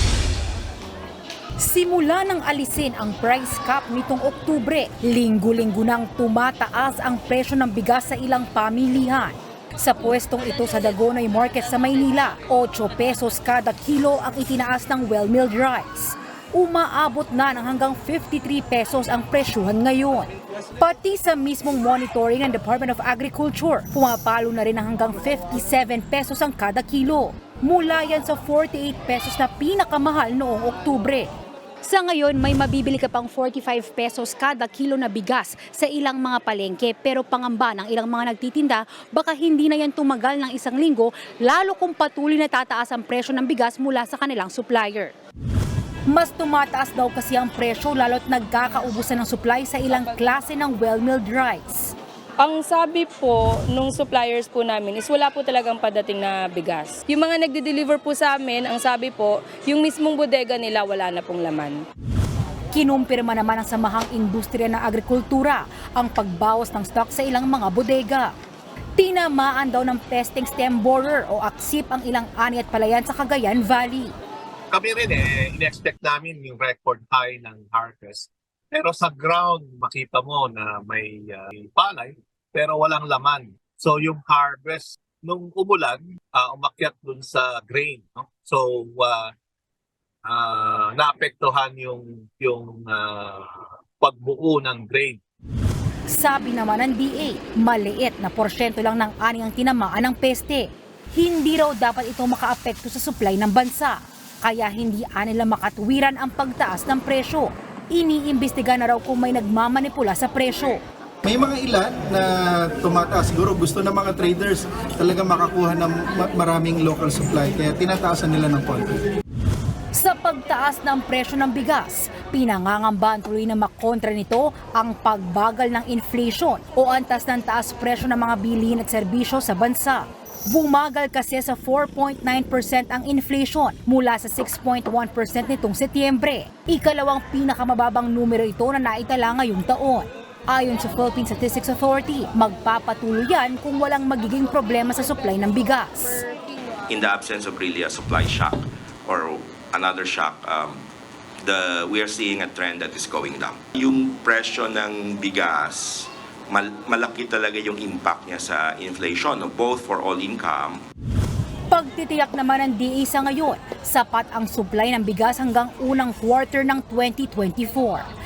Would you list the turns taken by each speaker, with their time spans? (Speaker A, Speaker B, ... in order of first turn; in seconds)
Speaker A: 1.6-31.3, 31.8-45.1, 46.1-51.9, 62.7-68.3, 69.0-74.1, 96.1-110.8, 119.9-146.2, 161.7-168.1
Speaker B: 52.4-61.8
Speaker C: 74.7-89.3, 90.2-93.5, 94.0-95.2
Speaker D: 111.2-118.9
Speaker E: 146.9-150.8, 151.4-160.8